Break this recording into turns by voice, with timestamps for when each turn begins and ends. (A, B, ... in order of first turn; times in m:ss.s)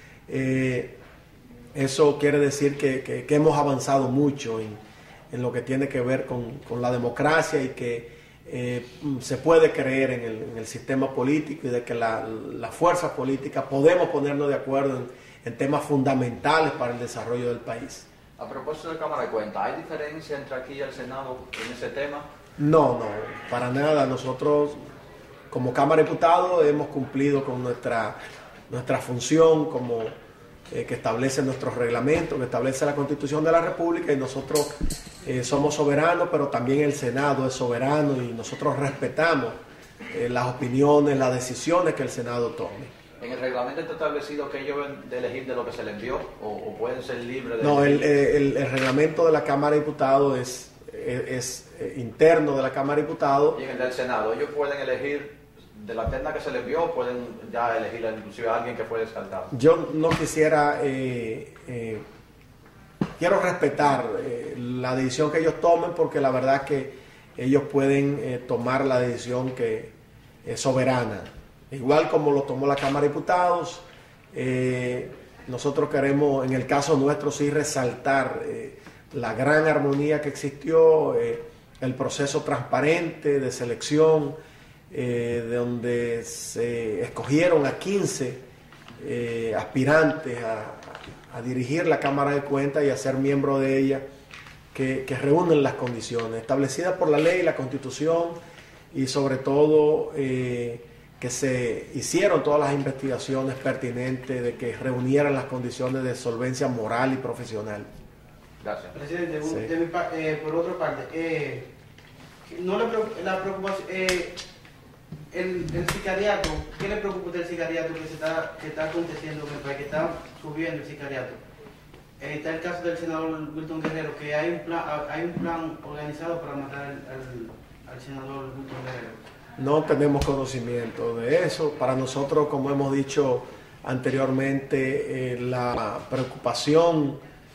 0:00.3-0:01.0 A
0:01.8-0:18.1 A
0:18.4-0:22.3 B
0:22.6-0:24.8 A
0:25.5-0:28.2 A
0:28.7-0:30.2 A
0:30.7-0:34.7 A
0:35.2-0:39.6 A
0:40.1-0:42.9 A
0:43.2-0:48.1 B
0:47.6-0:53.6 A
0:53.5-0:59.5 B
0:59.5-1:02.0 A
1:03.2-1:09.9 A
1:10.4-1:24.4 A
1:24.9-1:28.4 A
1:29.0-1:34.0 A
1:34.7-1:38.4 A
1:38.9-1:47.9 A
1:48.6-1:49.0 B
1:48.9-1:51.7 C
1:49.4-1:49.7 A
1:52.5-1:54.4 C
1:55.3-2:01.4 C
2:02.2-2:09.2 C
2:09.6-2:17.2 A